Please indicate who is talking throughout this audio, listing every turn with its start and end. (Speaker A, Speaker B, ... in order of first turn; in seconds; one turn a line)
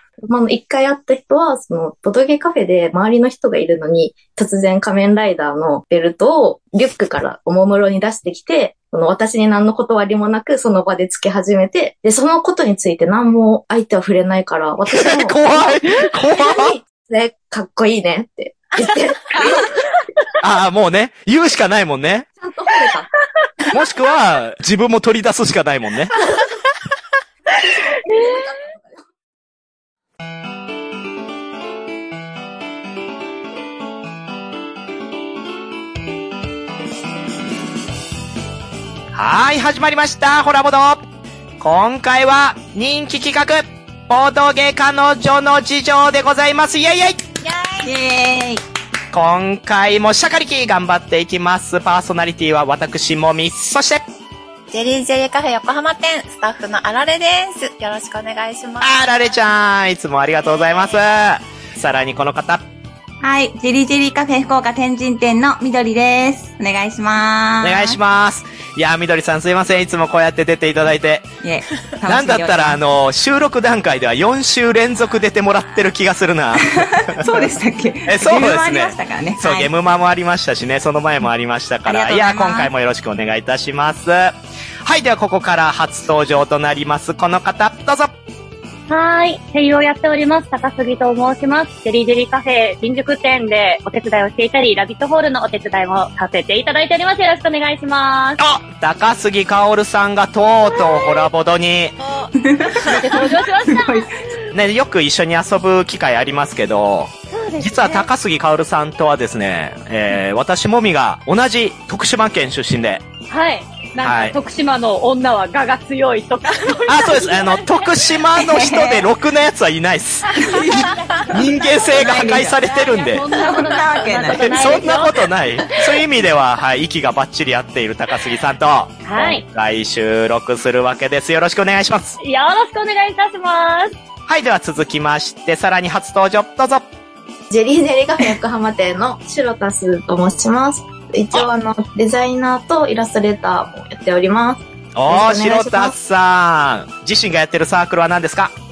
Speaker A: 0.2-19.8
Speaker B: 14.9-16.7
Speaker B: 20.4-22.3
Speaker A: 22.4-23.1
Speaker B: 23.7-26.1
Speaker C: 28.1-28.5
Speaker B: 39.1-41.0
Speaker B: 41.6-47.2
Speaker D: 47.4-47.9
Speaker E: 47.8-48.6
Speaker B: 49.1-54.0
Speaker D: 54.7-59.0
Speaker B: 58.8-62.6
Speaker E: 63.2-68.0
Speaker B: 67.6-71.3
Speaker E: 71.4-72.8
Speaker B: 72.1-77.5
Speaker E: 76.7-79.7
Speaker B: 78.1-88.1
Speaker E: 81.8-82.7
Speaker C: 88.9-98.4
Speaker B: 98.4-101.9
Speaker D: 102.0-103.1
Speaker E: 102.4-104.1
Speaker C: 102.8-104.5
Speaker B: 104.5-113.0
Speaker C: 107.3-108.1
Speaker C: 113.3-117.9
Speaker B: 114.0-114.3
Speaker B: 116.8-120.6
Speaker E: 118.3-119.1
Speaker E: 120.4-121.0
Speaker C: 120.7-121.8
Speaker B: 121.3-123.4
Speaker E: 121.9-122.6
Speaker C: 122.6-125.2
Speaker E: 123.3-124.8
Speaker B: 124.4-132.2
Speaker C: 129.1-129.4
Speaker C: 132.2-133.9
Speaker B: 134.3-136.8
Speaker A: 137.5-145.9
Speaker B: 144.9-148.5